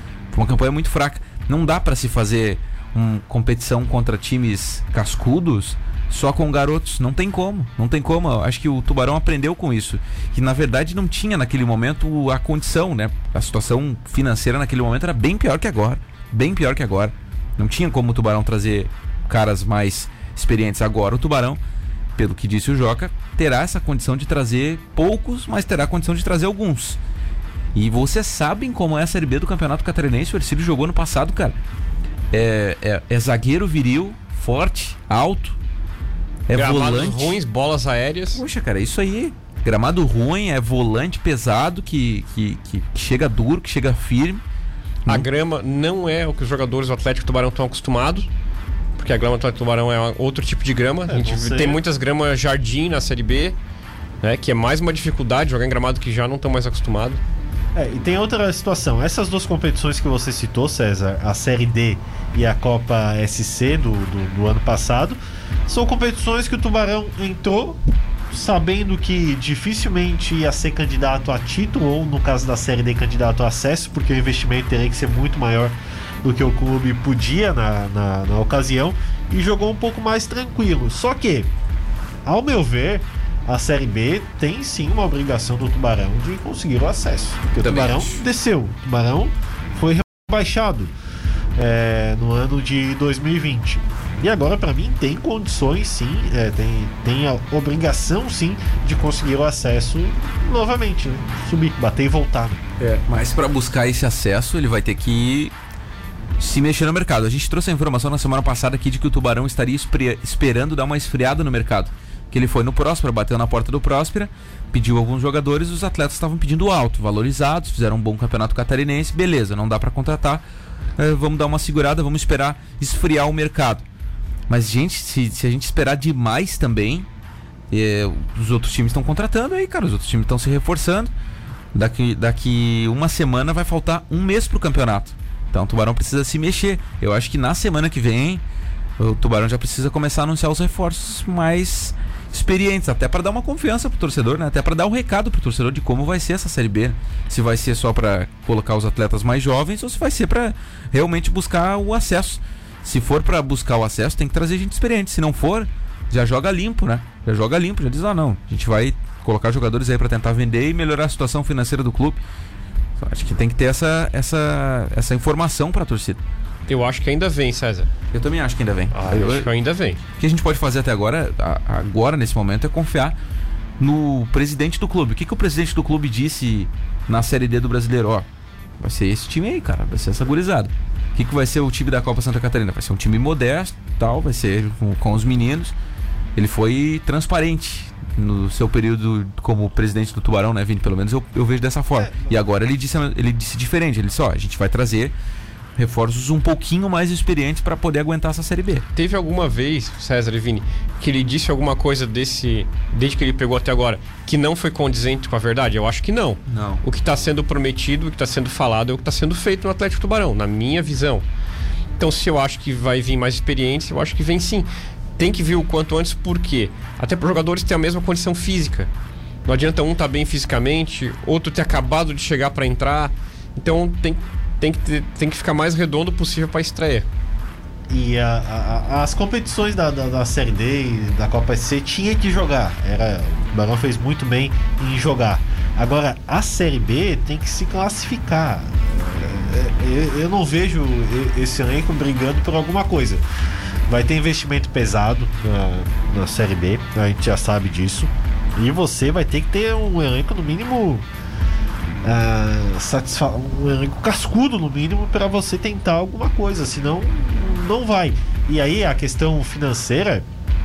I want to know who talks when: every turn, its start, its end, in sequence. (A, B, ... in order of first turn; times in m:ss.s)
0:00.3-0:21.6 A
0:22.2-0:27.0 A
0:27.7-0:31.6 A
0:32.3-0:35.6 A
0:36.5-0:37.4 A
0:36.5-0:38.4 B
0:38.3-0:44.4 A
0:45.1-0:48.3 B
0:49.0-0:53.6 B
0:51.1-0:51.8 C
0:54.2-0:57.2 B
0:57.7-1:07.8 C
1:08.3-1:21.5 C
1:22.2-1:31.0 C
1:27.6-1:28.2 A
1:31.5-1:42.6 C
1:42.8-1:45.5 A
1:46.4-2:00.4 A
2:01.0-2:03.8 A
2:04.5-2:07.1 A
2:07.7-2:11.1 A
2:11.7-2:18.4 A
2:19.0-2:42.2 A
2:43.0-2:46.2 A
2:46.7-2:47.9 B
2:48.1-2:49.5 A
2:48.9-2:49.3 C
2:49.0-2:50.0 B
2:50.0-2:53.2 A
2:53.8-2:58.3 A
2:58.8-3:05.7 A
3:06.4-3:15.1 A
3:12.0-3:12.3 C
3:15.8-3:18.8 A
3:18.9-3:31.2 B
3:26.5-3:26.8 A
3:32.0-3:38.9 B
3:39.4-3:47.0 B
3:47.9-4:03.2 C
4:03.9-4:11.1 C
4:12.0-4:20.3 C